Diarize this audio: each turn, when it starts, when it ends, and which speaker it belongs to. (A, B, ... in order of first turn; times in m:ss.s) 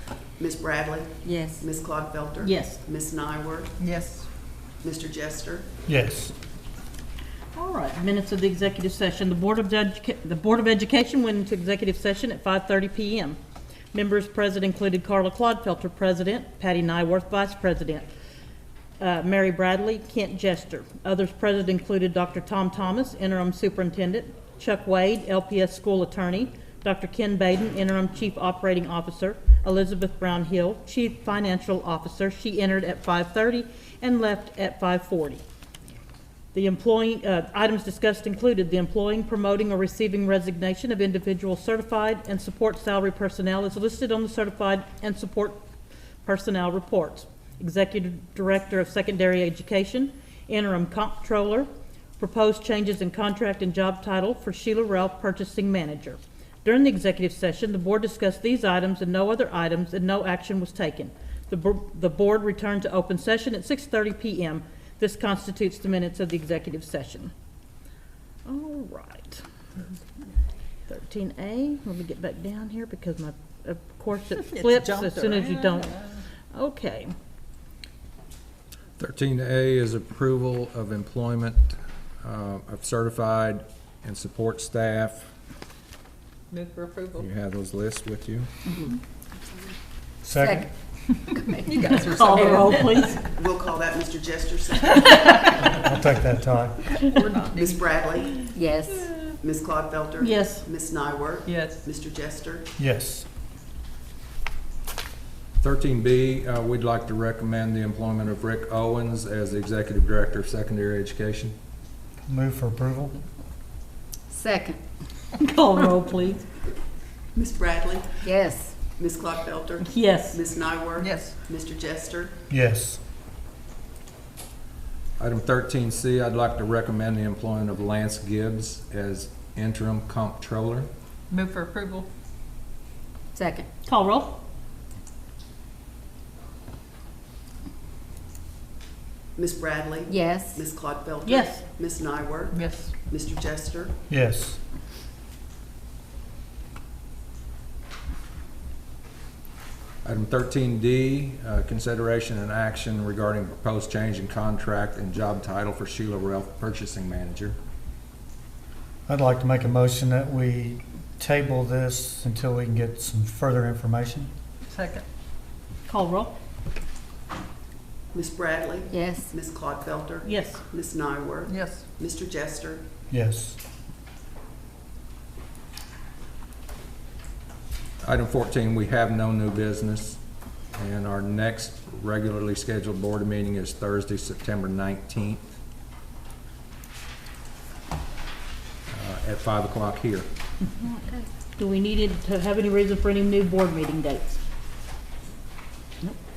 0:00.4-0:03.7 A
0:01.2-0:01.7 B
0:02.4-0:02.8 C
0:03.8-0:04.3 D
0:04.8-0:05.7 A
0:05.9-0:06.3 E
0:07.5-0:13.4 C
0:13.9-0:18.1 C
0:19.0-0:35.4 C
0:36.5-0:45.6 C
0:46.2-0:51.7 C
0:52.2-1:07.3 C
1:08.5-1:09.4 C
1:10.9-1:15.9 C
1:14.4-1:16.2 D
1:16.5-1:17.1 C
1:19.0-1:25.3 F
1:26.5-1:27.3 D
1:27.2-1:28.5 F
1:30.2-1:30.7 E
1:30.3-1:31.8 B
1:31.6-1:33.1 D
1:32.1-1:33.2 C
1:33.2-1:35.4 A
1:35.1-1:35.6 D
1:35.6-1:37.0 E
1:37.0-1:39.3 D
1:37.5-1:38.5 A
1:38.5-1:39.1 B
1:39.4-1:42.7 A
1:40.2-1:40.6 C
1:41.5-1:41.9 D
1:42.8-1:43.3 E
1:45.6-1:51.5 F
1:52.2-1:53.2 E
1:54.3-1:54.8 B
1:55.4-1:56.4 C
1:57.3-1:58.3 A
1:58.2-1:58.8 B
1:59.0-2:02.4 A
1:59.8-2:00.4 C
2:01.0-2:01.4 D
2:02.5-2:03.0 E
2:05.2-2:10.9 F
2:11.3-2:12.1 D
2:13.3-2:13.7 B
2:13.9-2:14.4 C
2:19.4-2:23.9 A
2:20.1-2:20.6 B
2:21.3-2:21.6 C
2:22.5-2:22.9 D
2:24.1-2:24.6 E
2:30.0-2:37.6 F
2:39.1-2:44.3 E
2:44.7-2:45.0 D
2:45.9-2:46.3 C
2:48.1-2:52.8 A
2:48.9-2:49.3 B
2:50.2-2:50.6 C
2:51.5-2:51.9 D
2:53.1-2:53.6 E
2:58.0-3:00.2 F
3:00.8-3:05.6 F
3:08.9-3:10.3 F
3:10.6-3:14.4 C